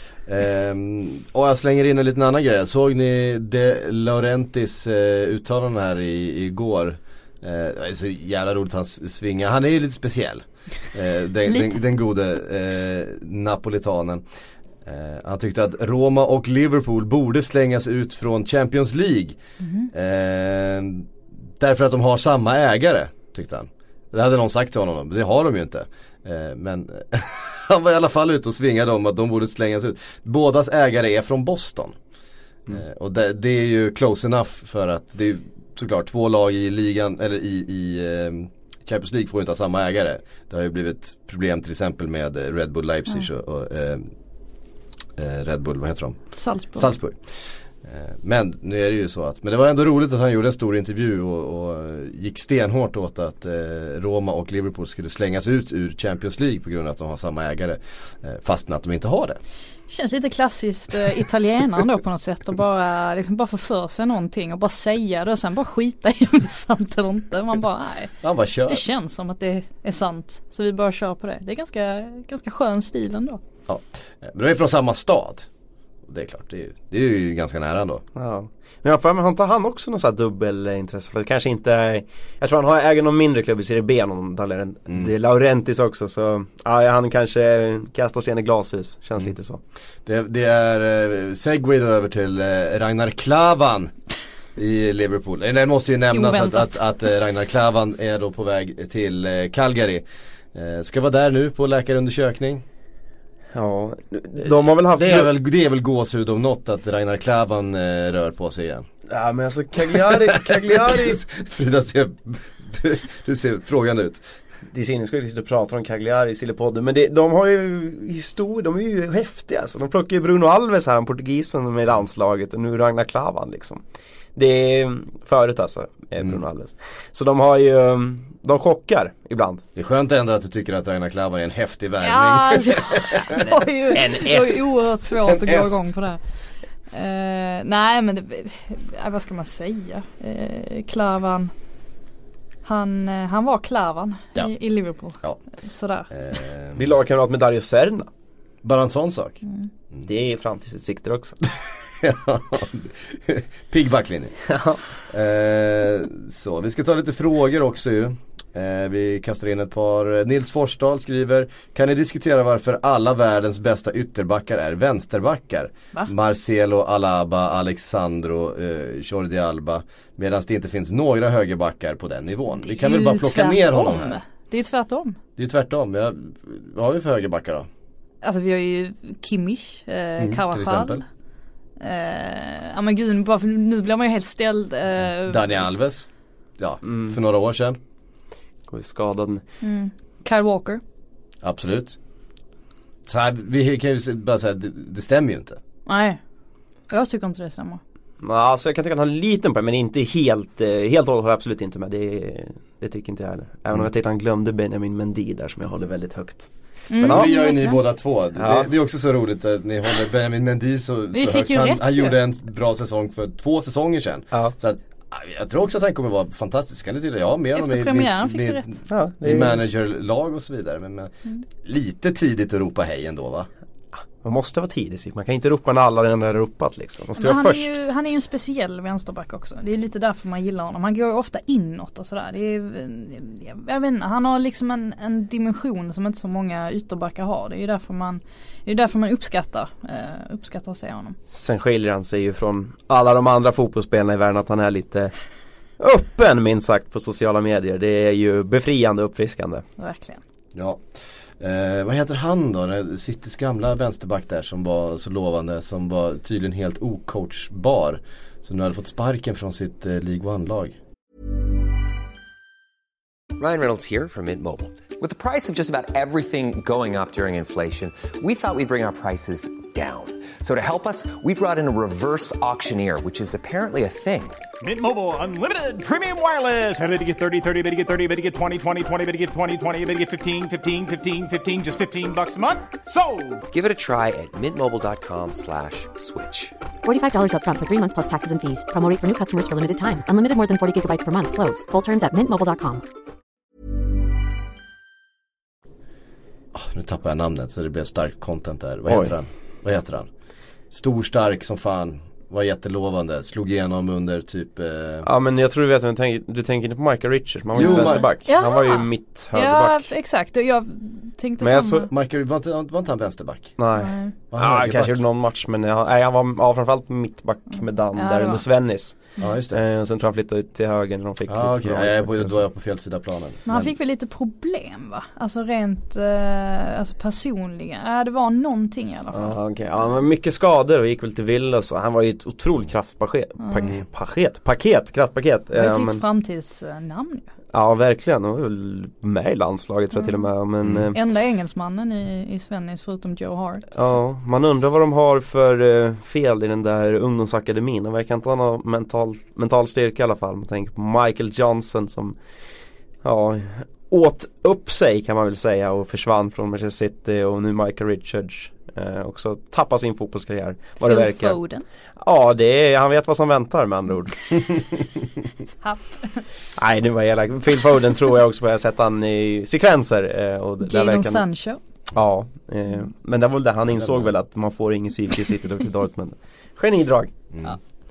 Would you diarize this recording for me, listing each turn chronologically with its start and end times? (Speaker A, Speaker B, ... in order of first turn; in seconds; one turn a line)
Speaker A: 0.2-14.2
Speaker A: 14.8-19.4
Speaker B: 19.6-19.9
Speaker A: 19.9-31.9
Speaker A: 32.7-44.1
Speaker A: 45.1-59.4
Speaker B: 46.4-46.9
Speaker B: 59.9-68.1
Speaker A: 68.2-68.8
Speaker B: 68.7-73.4
Speaker A: 73.7-75.5
Speaker A: 76.0-78.0
Speaker C: 78.2-89.6
Speaker A: 90.0-93.9
Speaker A: 94.5-102.6
Speaker B: 96.1-96.8
Speaker C: 103.5-105.3
Speaker A: 104.4-108.9
Speaker C: 109.1-111.2
Speaker A: 109.8-114.2
Speaker C: 114.7-123.8
Speaker C: 124.3-129.6
Speaker A: 129.7-133.5
Speaker B: 132.0-136.2
Speaker C: 133.9-134.8
Speaker A: 135.1-135.8
Speaker B: 136.9-141.5
Speaker B: 142.6-146.1
Speaker A: 146.1-146.9
Speaker C: 146.8-148.1
Speaker A: 148.6-149.4
Speaker C: 150.0-151.4
Speaker A: 151.5-154.4
Speaker C: 154.5-154.8
Speaker A: 155.1-174.2
Speaker B: 172.6-175.2
Speaker A: 175.4-177.7
Speaker B: 178.2-181.0
Speaker A: 180.2-181.0
Speaker B: 181.8-185.6
Speaker A: 185.2-187.8
Speaker C: 186.8-187.2
Speaker C: 188.7-189.4
Speaker B: 189.6-190.8
Speaker A: 191.4-192.0
Speaker A: 193.1-195.6
Speaker B: 195.9-196.2
Speaker B: 196.9-197.8
Speaker C: 198.2-207.3
Speaker B: 206.9-207.8
Speaker A: 207.0-223.5
Speaker C: 208.4-208.7
Speaker B: 211.1-212.2
Speaker B: 217.5-218.8
Speaker C: 218.9-219.6
Speaker C: 224.2-227.7
Speaker B: 227.2-241.2
Speaker C: 241.3-245.1
Speaker C: 245.8-249.6
Speaker B: 249.8-250.2
Speaker A: 250.5-250.8
Speaker A: 251.4-260.8
Speaker D: 263.4-274.4
Speaker E: 274.6-283.4
Speaker D: 283.5-286.5
Speaker F: 286.8-292.8
Speaker A: 296.5-300.1
Speaker C: 298.9-299.1
Speaker A: 300.7-305.1
Speaker C: 305.0-309.9
Speaker A: 307.5-308.1
Speaker B: 307.6-311.9
Speaker C: 311.4-311.8
Speaker A: 311.7-313.6
Speaker C: 313.6-322.4
Speaker B: 313.7-314.1
Speaker A: 314.3-315.0
Speaker B: 317.6-318.4
Speaker A: 319.2-319.6
Speaker A: 321.3-323.7
Speaker B: 323.4-329.4
Speaker C: 329.1-336.0
Speaker B: 333.4-333.7
Speaker B: 335.5-337.3
Speaker C: 337.5-341.0
Speaker B: 340.0-340.2
Speaker A: 340.6-340.9
Speaker B: 340.9-344.0
Speaker C: 343.7-352.1
Speaker C: 353.0-361.4
Speaker B: 360.8-361.6
Speaker C: 362.0-364.5
Speaker B: 365.6-366.2
Speaker C: 366.6-371.2
Speaker B: 370.6-371.6
Speaker C: 371.9-377.1
Speaker A: 373.7-374.1
Speaker A: 377.3-377.6